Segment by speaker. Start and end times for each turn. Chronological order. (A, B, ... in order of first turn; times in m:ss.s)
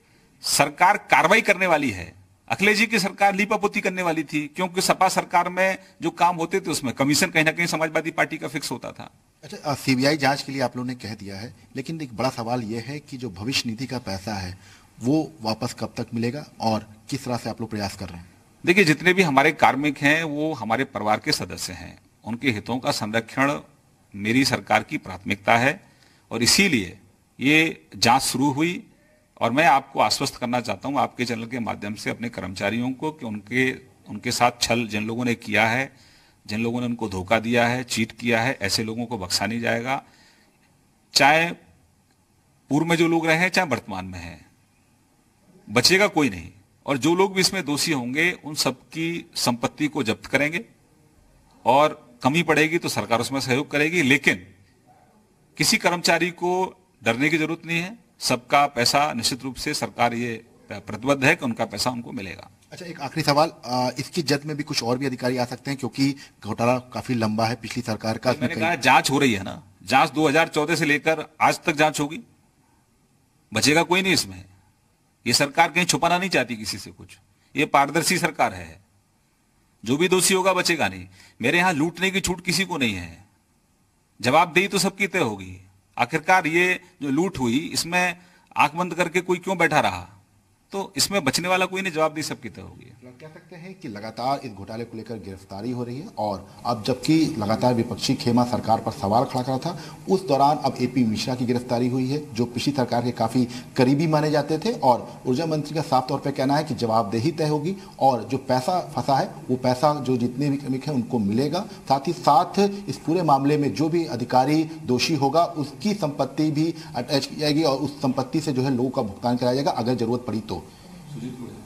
0:00.4-0:09.1 A
0:09.4-0:18.3 B
0:18.6-0:28.8 A
0:29.4-0:35.9 A
0:36.5-0:40.0 A
0:41.1-0:41.6 A
0:42.7-0:44.4 A
0:45.7-0:50.6 A
0:51.6-0:54.5 A
0:55.6-1:02.5 A
1:02.7-1:08.7 B
1:08.2-1:12.2 A
1:13.5-1:14.5 A
1:15.2-1:18.8 A
1:19.8-1:23.2 A
1:24.2-1:30.2 A
1:30.7-1:33.0 A
1:33.0-2:00.7 B